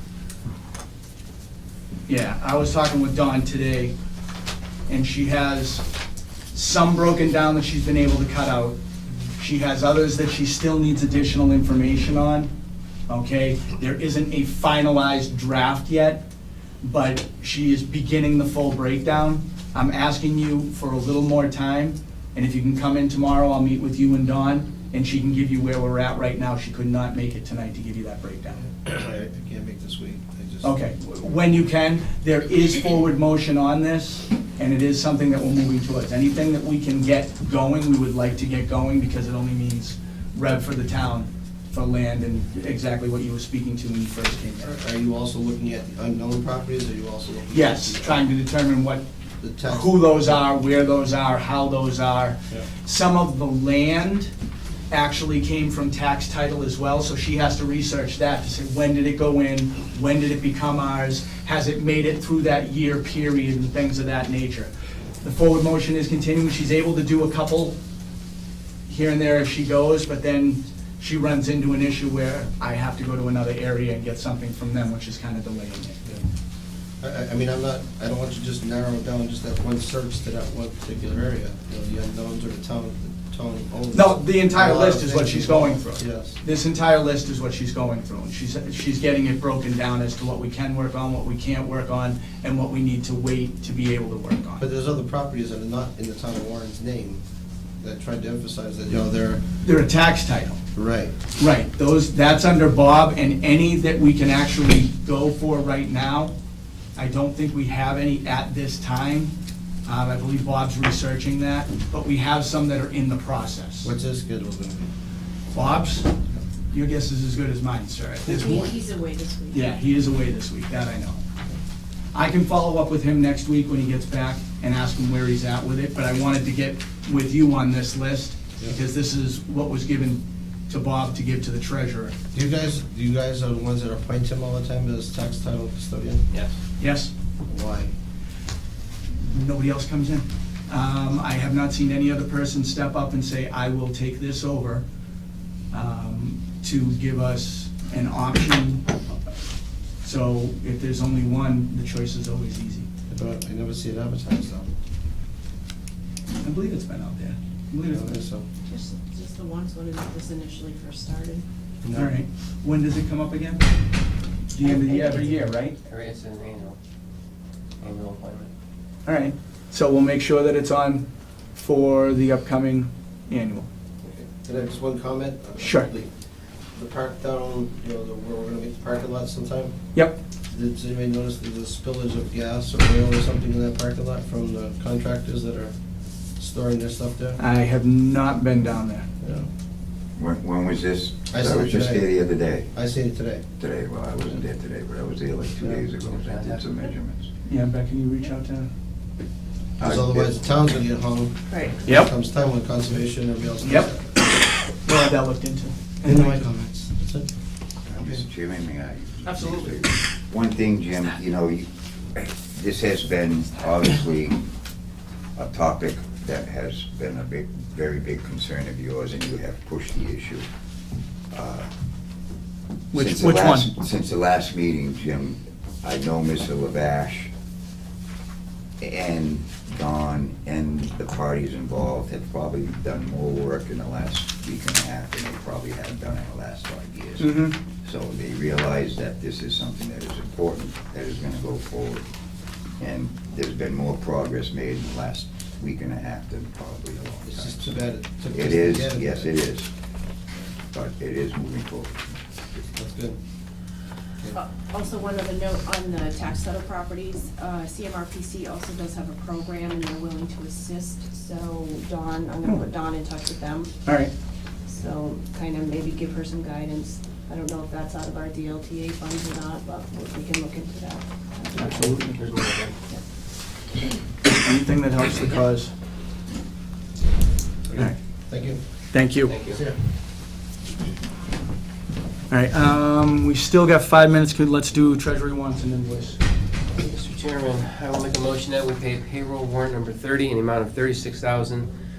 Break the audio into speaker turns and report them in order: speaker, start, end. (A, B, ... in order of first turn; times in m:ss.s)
0:02.1-0:03.9 A
0:04.9-0:05.9 A
0:06.5-0:08.8 A
0:09.4-0:12.5 A
0:13.1-0:16.2 A
0:16.8-0:28.7 A
0:28.7-0:30.7 B
0:30.6-0:44.7 A
0:44.6-0:48.3 B
0:47.5-0:49.1 A
0:49.4-0:49.9 B
0:49.6-0:54.3 A
0:54.9-1:04.7 A
1:05.2-1:07.8 A
1:08.9-1:16.0 A
1:17.0-1:26.4 B
1:23.9-1:34.6 A
1:34.6-1:37.2 B
1:37.8-1:39.4 B
1:39.6-1:40.6 A
1:40.7-1:41.1 B
1:41.4-1:46.3 A
1:47.0-1:49.3 A
1:49.9-1:53.9 A
1:53.8-1:54.9 B
1:55.5-1:56.1 A
1:56.7-1:58.7 A
1:58.3-1:59.6 C
1:59.5-2:01.2 A
2:02.1-2:12.2 A
2:12.3-2:16.2 B
2:16.8-2:17.1 A
2:17.5-2:17.9 B
2:19.2-2:24.8 A
2:25.7-2:28.8 A
2:30.0-2:32.9 A
2:33.1-2:34.7 B
2:36.4-2:38.2 A
2:37.9-2:38.5 B
2:38.7-2:41.4 C
2:41.8-2:42.2 B
2:41.9-2:43.6 A
2:44.5-2:45.8 A
2:44.6-2:45.4 C
2:45.8-2:46.8 D
2:47.8-2:48.5 D
2:49.1-2:53.7 A
2:54.0-2:56.1 B
2:55.6-2:55.9 A
2:56.7-2:59.8 B
2:59.9-3:00.2 A
3:00.5-3:05.7 B
3:06.4-3:07.4 B
3:07.4-3:09.1 A
3:09.2-3:09.5 B
3:10.2-3:12.7 E
3:11.3-3:12.1 B
3:12.7-3:13.4 B
3:13.6-3:17.3 E
3:15.6-3:15.9 B
3:16.1-3:16.6 D
3:17.5-3:18.7 A
3:19.8-3:20.4 E
3:19.8-3:24.3 B
3:21.5-3:21.8 C
3:21.9-3:22.1 A
3:23.6-3:23.9 A
3:24.8-3:26.4 A
3:26.0-3:27.3 B
3:27.9-3:34.4 E
3:28.0-3:28.2 B
3:29.2-3:29.8 A
3:35.4-3:40.5 E
3:41.3-3:41.7 E
3:42.9-3:43.7 A
3:42.9-3:47.3 E
3:48.8-4:02.1 E
3:57.2-3:57.6 A
4:02.8-4:07.8 E
4:07.1-4:09.3 B
4:08.3-4:09.7 E
4:10.7-4:12.2 E
4:12.7-4:13.2 B
4:14.3-4:23.7 C
4:23.8-4:24.1 A
4:24.7-4:31.6 C
4:31.5-4:32.2 A
4:31.6-4:32.8 D
4:34.2-4:35.7 A
4:37.7-4:38.6 B
4:38.9-4:39.4 A
4:39.2-4:39.6 D
4:39.5-4:39.8 B
4:42.3-4:46.2 A
4:46.7-4:51.7 D